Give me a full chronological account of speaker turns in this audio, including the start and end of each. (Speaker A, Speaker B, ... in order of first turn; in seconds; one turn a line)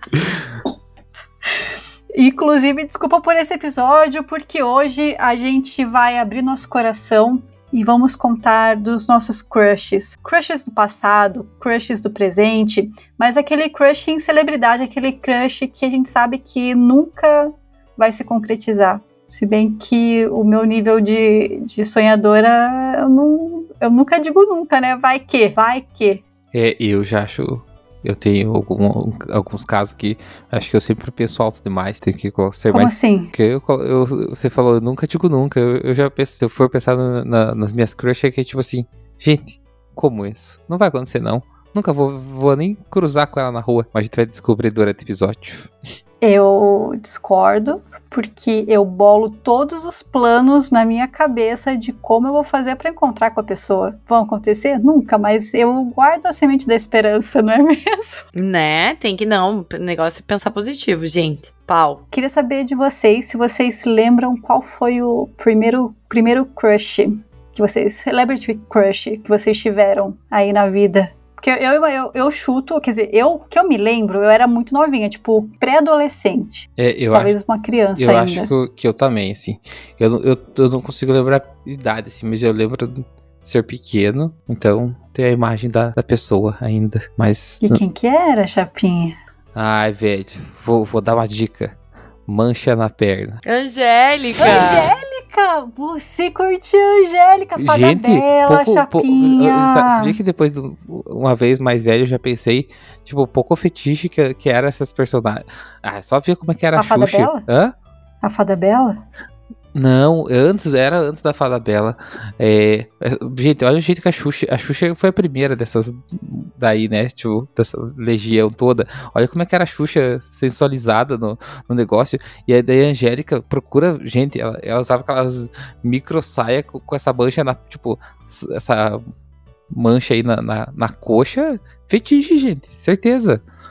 Speaker A: 2.1-26.2
Speaker B: 26.5-45.7
Speaker A: 32.7-33.3
Speaker A: 46.2-58.2
Speaker C: 58.3-62.0
Speaker A: 62.1-78.5
Speaker B: 76.8-77.3
Speaker B: 78.0-87.8
Speaker A: 87.6-89.1
Speaker B: 89.5-93.4
Speaker C: 93.4-94.9
Speaker A: 94.4-100.2
Speaker B: 97.6-107.7
Speaker A: 106.7-107.4
Speaker A: 108.2-109.0
Speaker B: 109.7-129.0
Speaker B: 129.7-133.4